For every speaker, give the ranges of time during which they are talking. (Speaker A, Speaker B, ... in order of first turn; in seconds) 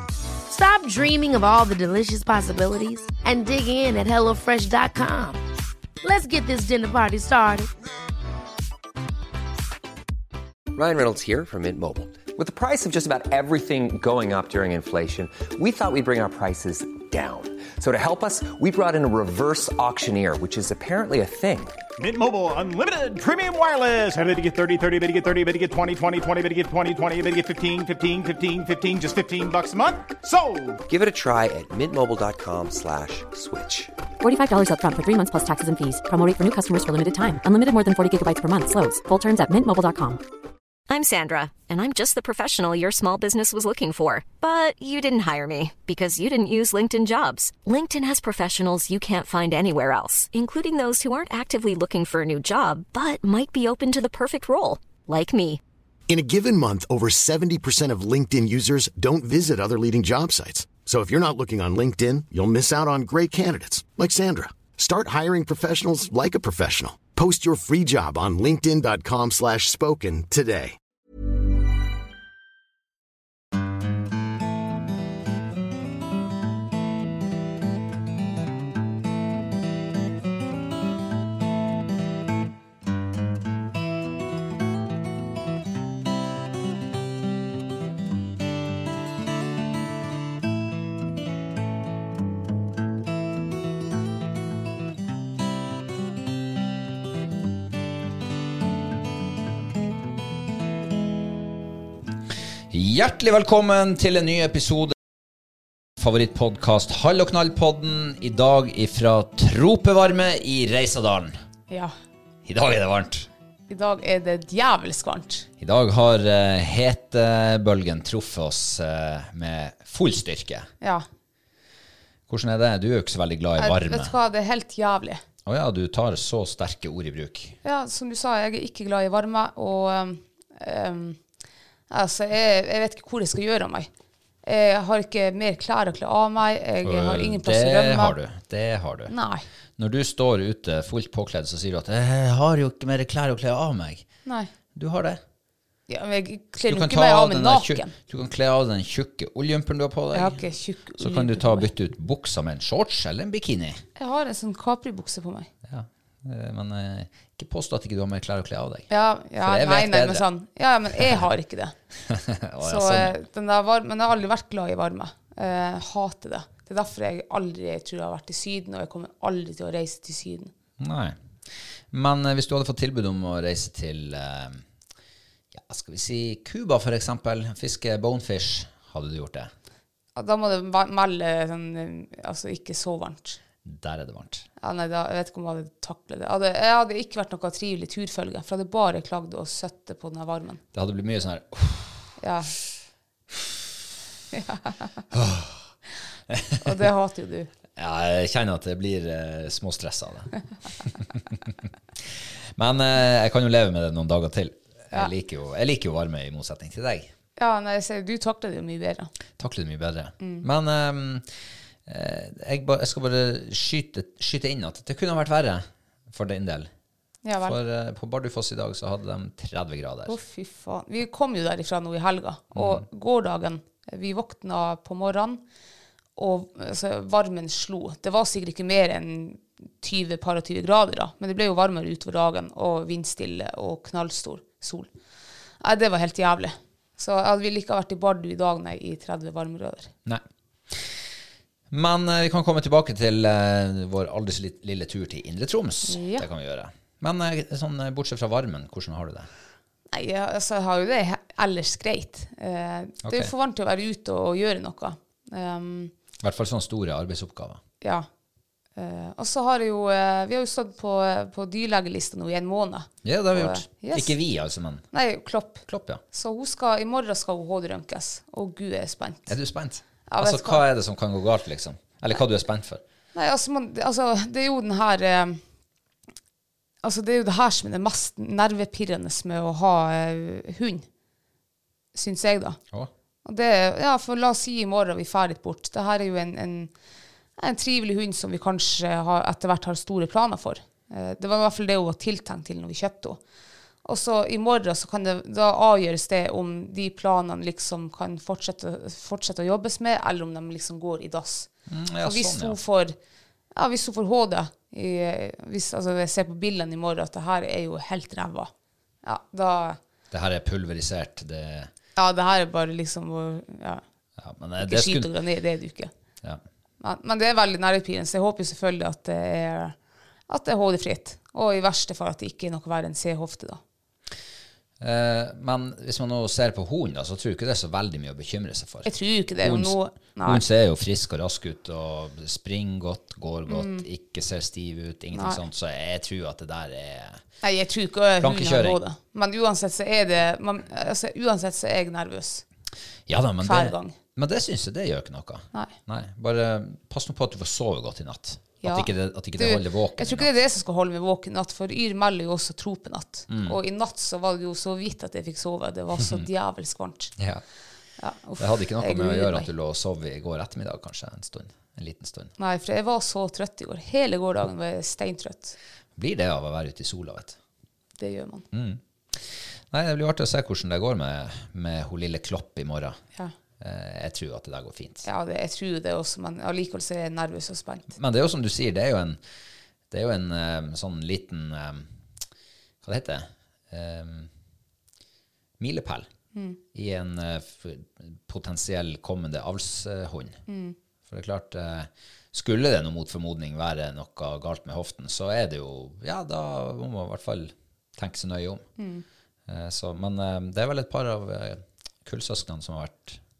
Speaker A: 0.5-5.4, 6.0-7.7
Speaker B: 10.7-21.8, 30.9-33.9
Speaker C: 22.0-30.8
Speaker D: 34.2-40.2
Speaker E: 40.9-55.6
Speaker F: 56.1-70.8
Speaker G: 102.7-105.0, 106.0-111.4, 112.5-113.3, 115.6-120.7, 122.3-124.1, 125.5-127.6, 136.8-139.2, 139.8-144.1, 144.8-145.2, 146.7-153.8, 155.6-160.2, 160.9-161.2, 162.0-163.2, 170.8-174.7, 175.5-179.5, 183.6-184.5, 190.7-192.1, 195.1-195.7, 196.3-196.7, 197.8-207.1, 209.4-216.7, 217.4-220.2, 222.6-222.8, 240.1-241.1, 241.7-249.3, 253.0-253.3, 256.2-257.6, 263.0-264.9, 265.7-266.0, 269.3-272.8, 301.7-302.6, 310.1-311.7, 314.2-315.1, 324.8-337.2, 338.2-338.8, 343.1-350.3, 353.3-353.6, 357.2-357.4, 358.4-362.3, 366.0-367.4, 368.5-373.0, 373.6-375.1, 377.9-379.2, 379.9-381.9, 382.8-384.3, 385.6-386.1, 386.7-390.4, 391.1-398.7, 399.5-403.2
Speaker H: 113.7-115.5, 123.6-125.2, 127.6-131.2, 131.9-133.9, 134.4-138.2, 139.1-139.5, 144.3-144.5, 145.9-147.9, 150.1-151.7, 154.0-155.5, 158.9-161.7, 162.6-170.5, 180.2-183.4, 184.6-190.6, 192.2-192.5, 194.3-195.0, 196.6-197.5, 207.4-209.1, 217.2-217.6, 220.1-225.4, 226.2-234.9, 235.6-239.9, 245.9-246.3, 249.9-255.9, 257.8-258.1, 258.8-264.1, 264.9-269.3, 270.1-270.6, 273.1-275.4, 276.8-280.9, 281.9-282.6, 283.2-286.7, 287.4-293.2, 293.8-301.5, 302.0-303.0, 303.6-308.5, 309.0-309.8, 312.0-313.8, 314.6-315.9, 316.8-319.8, 320.3-323.6, 328.9-330.4, 333.5-333.9, 335.1-335.4, 337.4-342.4, 343.4-344.0, 348.6-357.1, 358.0-359.5, 362.4-365.6, 368.0-368.4, 375.0-377.9, 386.3-386.6, 390.5-390.8, 398.8-399.0